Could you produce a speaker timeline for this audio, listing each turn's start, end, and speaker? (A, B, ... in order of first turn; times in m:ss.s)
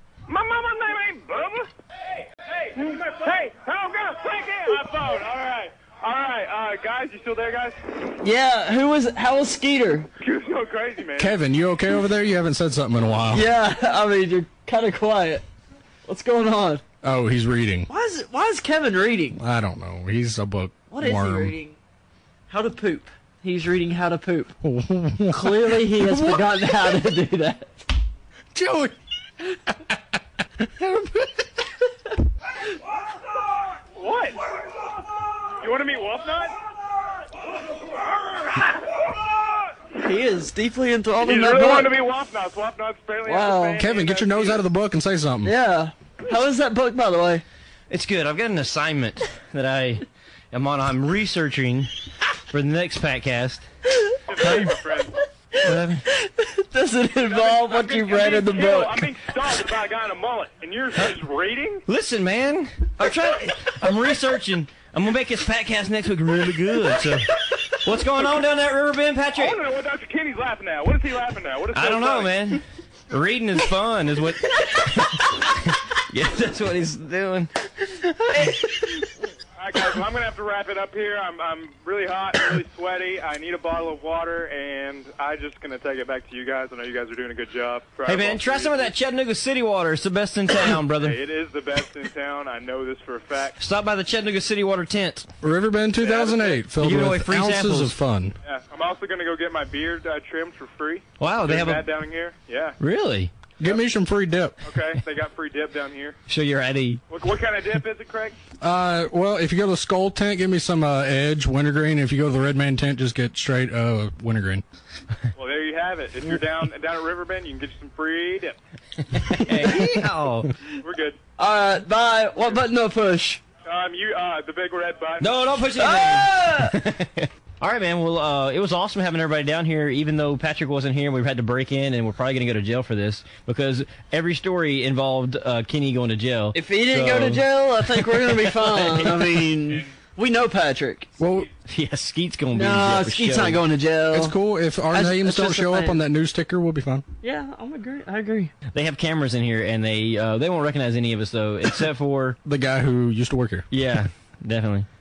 0:00.3-0:01.7 A
0:02.4-0:07.8 B
0:02.8-0:04.8 A
0:08.2-0:10.1 C
0:10.2-0:11.3 B
0:11.2-0:13.5 D
0:13.3-0:15.4 C
0:16.1-0:16.8 C
0:17.0-0:17.9 D
0:17.9-0:19.4 C
0:19.4-0:21.6 D
0:20.9-0:21.8 C
0:22.5-0:24.6 C
0:24.6-0:27.0 D
0:25.3-0:27.8 C
0:28.5-0:29.0 D
0:30.8-0:31.2 D
0:34.0-0:34.5 B
0:35.6-0:36.6 B
0:40.0-0:42.0 C
0:41.2-0:44.6 B
0:43.2-0:43.8 C
0:43.8-0:45.5 D
0:45.4-0:47.4 C
0:47.9-0:51.9 E
0:52.5-0:53.6 E
0:54.3-0:55.2 B
0:54.4-0:54.8 C
0:55.6-0:59.2 C
0:55.6-0:56.0 E
0:57.3-1:01.8 B
1:01.9-1:09.6 E
1:09.4-1:12.3 B
1:11.7-1:19.0 E
1:19.6-1:28.9 B
1:28.1-1:31.2 E
1:31.0-1:33.6 B
1:33.6-1:35.3 E
1:35.4-1:38.4 D
1:36.0-1:36.6 B
1:36.8-1:38.0 E
1:38.5-1:42.8 B
1:41.2-1:41.9 E
1:42.8-1:43.3 E
1:43.6-1:44.6 D
1:44.6-1:46.2 B
1:46.3-1:47.0 E
1:47.1-1:48.4 B
1:48.6-1:54.6 D
1:55.4-1:58.6 B
1:59.1-2:00.5 E
2:00.8-2:01.2 B
2:01.4-2:03.4 C
2:03.6-2:05.4 B
2:05.2-2:19.4 E
2:05.8-2:06.8 C
2:16.5-2:21.1 C
2:21.2-2:21.5 D
2:21.7-2:23.6 E
2:22.5-2:24.4 C
2:24.1-2:27.0 D
2:24.9-2:26.0 C
2:27.2-2:28.5 C
2:28.7-2:32.4 E
2:32.4-2:33.7 D
2:33.7-2:34.9 E